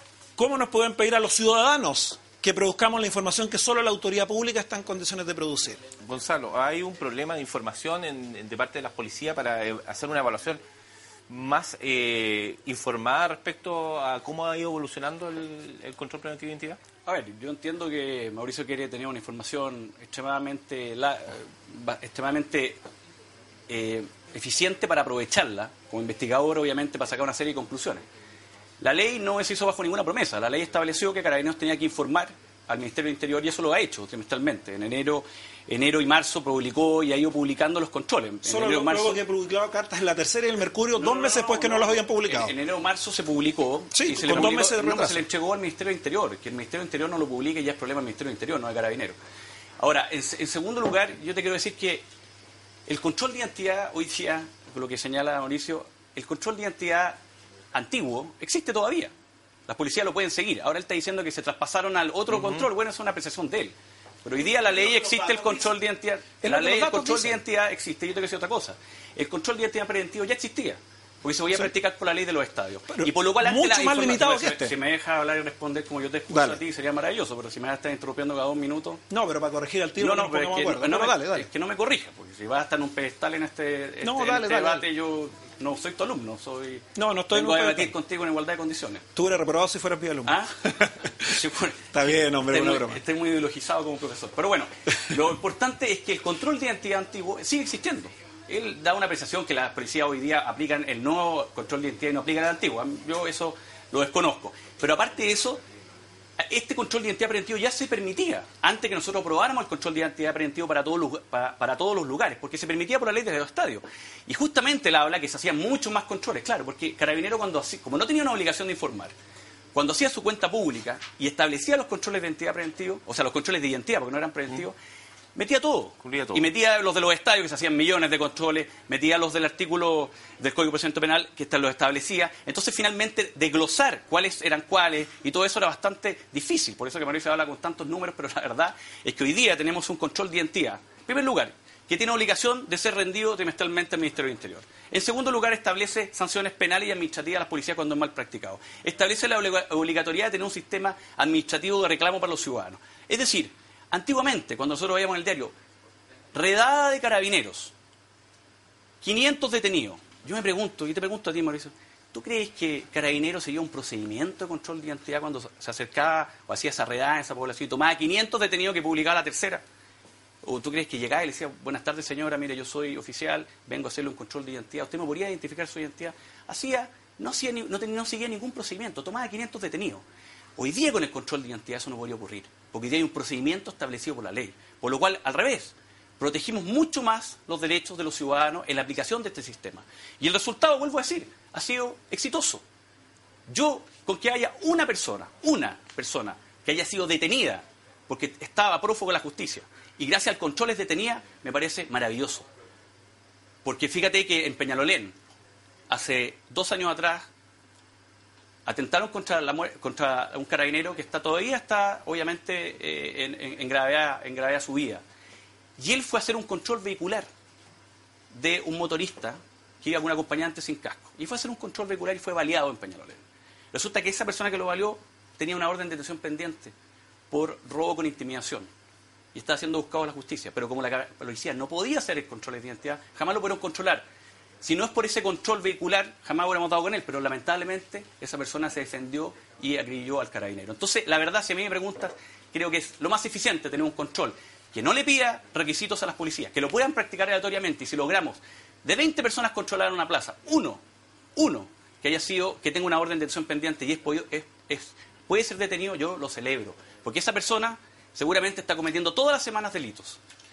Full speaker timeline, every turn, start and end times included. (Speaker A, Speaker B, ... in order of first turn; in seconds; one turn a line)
Speaker A: 0.4-5.8
Speaker B: 6.0-10.6
Speaker B: 11.3-16.8
Speaker C: 17.1-22.8
Speaker C: 23.7-28.1
Speaker C: 28.8-39.2
Speaker A: 38.4-42.5
Speaker C: 41.0-49.1
Speaker A: 43.9-45.2
Speaker C: 49.8-52.0
Speaker C: 52.9-57.2
Speaker C: 57.7-59.1
Speaker C: 59.7-79.0
Speaker A: 64.8-65.6
Speaker A: 66.4-67.4
Speaker A: 72.9-74.7
Speaker A: 76.3-76.6
Speaker A: 79.1-81.5
Speaker C: 80.0-89.0
Speaker A: 84.0-84.9
Speaker A: 86.9-87.9
Speaker A: 89.1-93.0
Speaker C: 90.2-105.6
Speaker C: 106.4-119.1
Speaker C: 119.7-124.8
Speaker C: 125.3-155.5
Speaker B: 126.0-126.5
Speaker C: 156.3-157.7
Speaker C: 159.0-169.6
Speaker C: 170.4-180.0
Speaker C: 180.6-192.6
Speaker C: 193.5-202.5
Speaker C: 203.6-205.2
Speaker C: 205.9-207.3
Speaker C: 208.7-215.0
Speaker C: 215.8-217.3
Speaker C: 218.3-226.7
Speaker C: 227.3-228.7
Speaker C: 229.3-234.0
Speaker C: 234.6-250.8
Speaker C: 251.3-260.2